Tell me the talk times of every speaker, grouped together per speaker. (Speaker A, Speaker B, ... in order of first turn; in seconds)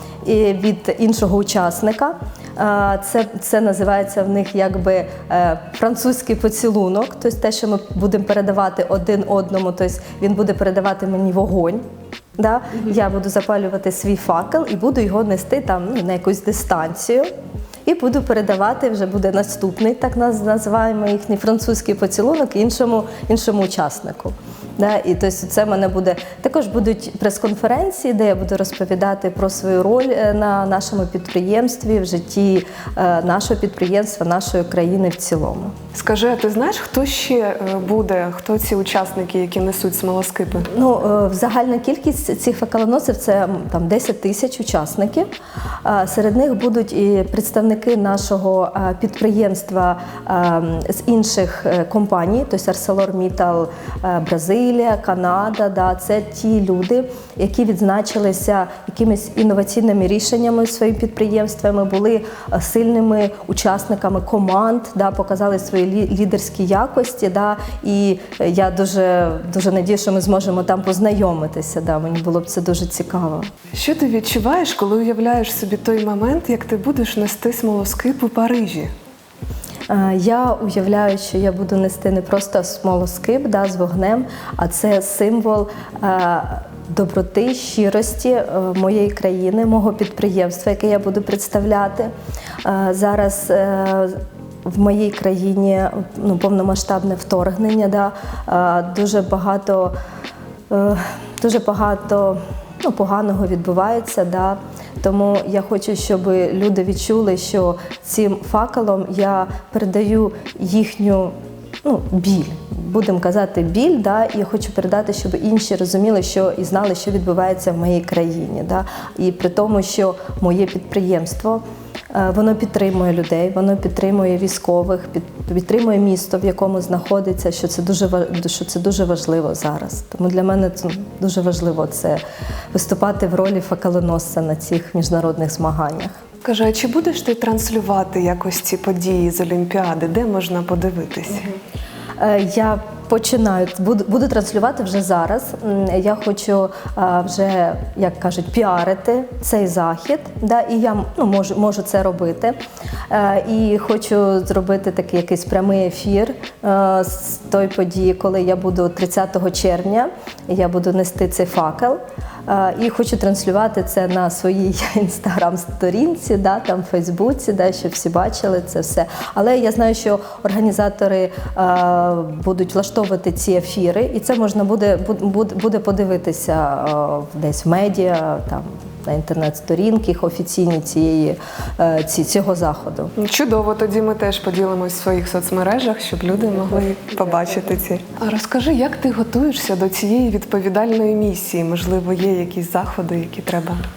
Speaker A: 0.2-11.8, 12.4-17.3, 17.9-35.7, 40.7-45.3, 45.8-73.5, 79.9-92.1, 92.6-100.0, 100.7-121.6, 122.1-132.2, 132.7-136.2, 142.2-152.6, 153.1-183.1
Speaker B: 35.9-40.7, 73.7-78.9, 136.4-141.6, 183.2-193.8